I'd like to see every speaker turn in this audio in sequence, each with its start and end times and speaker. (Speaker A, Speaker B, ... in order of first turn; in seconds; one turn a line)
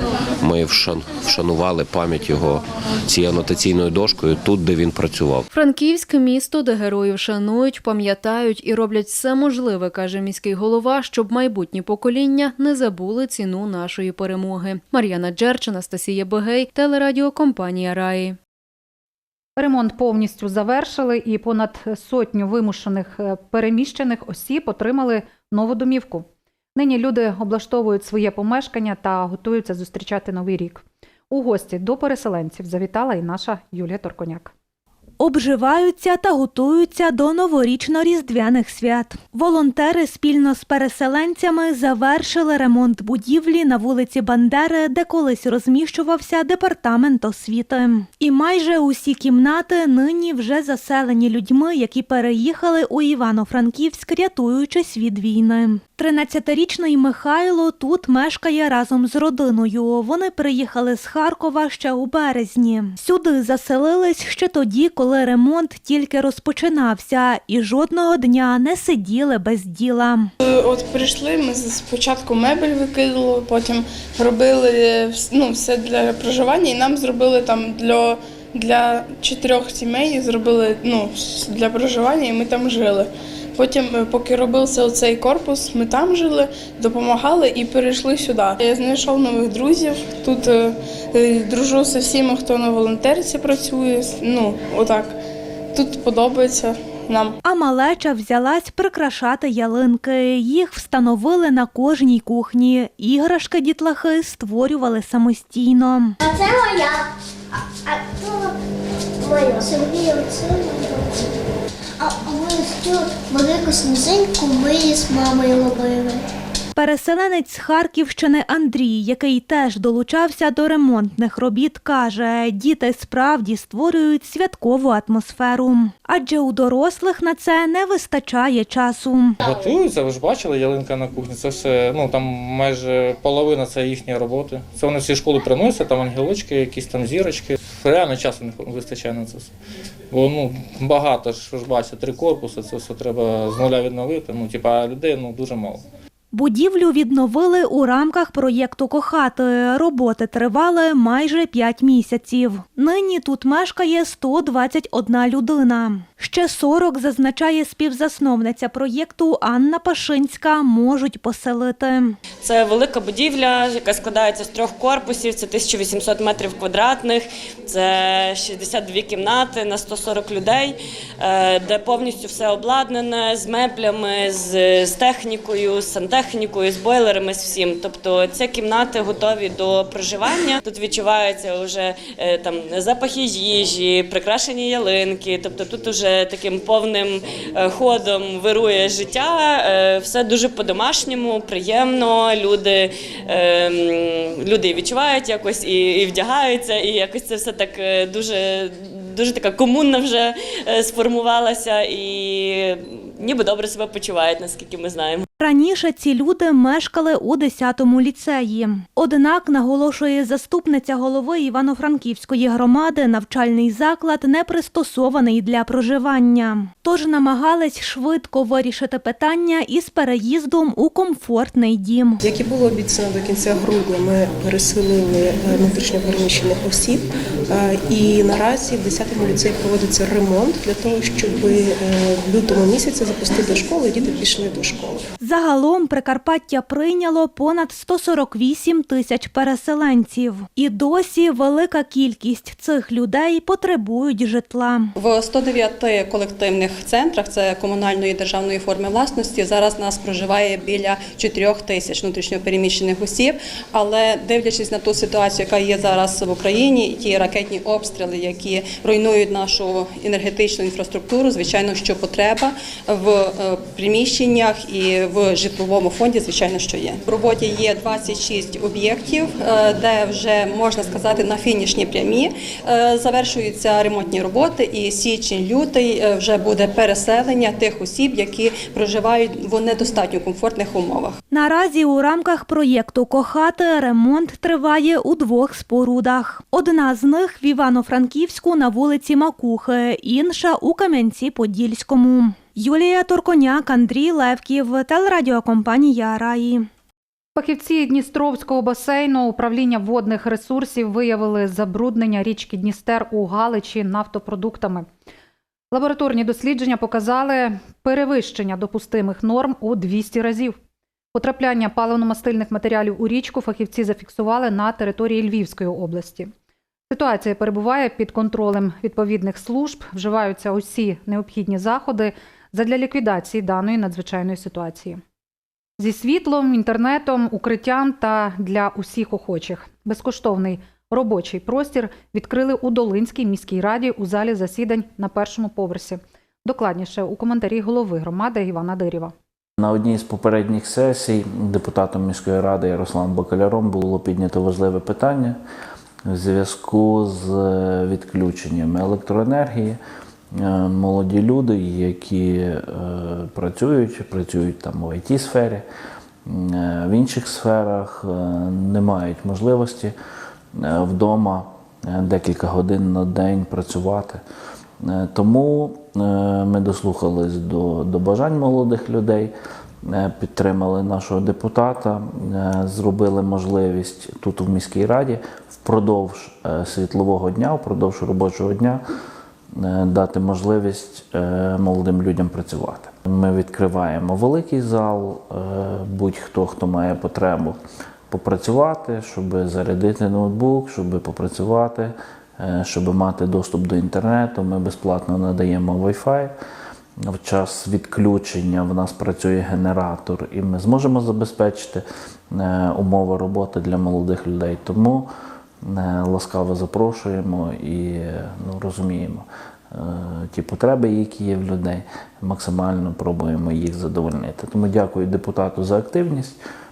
Speaker A: 0.4-5.5
Speaker B: 5.5-18.4
Speaker C: 19.6-34.5
Speaker D: 35.2-70.3
Speaker E: 70.7-78.0
Speaker E: 78.7-83.0
Speaker E: 83.6-90.4
Speaker E: 91.3-95.1
Speaker E: 95.8-97.3
Speaker D: 97.4-106.2
Speaker F: 106.2-107.1
Speaker F: 107.8-108.5
Speaker F: 109.2-111.2
Speaker F: 112.0-116.2
Speaker D: 116.7-129.3
Speaker G: 129.4-139.5
Speaker G: 140.1-145.8
Speaker D: 146.3-162.2
Speaker H: 162.4-205.2
Speaker D: 205.4-222.2
Speaker I: 222.2-235.1
Speaker D: 235.2-244.9
Speaker J: 244.9-281.2
Speaker D: 281.3-296.7
Speaker C: 297.4-304.9
Speaker C: 305.7-310.6
Speaker C: 311.1-316.3
Speaker C: 316.9-325.0
Speaker C: 325.8-339.1
Speaker K: 339.6-345.4
Speaker K: 346.1-349.8
Speaker K: 350.3-355.6
Speaker K: 356.2-359.9
Speaker K: 360.5-364.2
Speaker K: 364.8-369.3
Speaker K: 369.9-378.8
Speaker K: 379.6-387.6
Speaker K: 388.1-396.3
Speaker K: 397.1-405.1
Speaker K: 405.6-416.4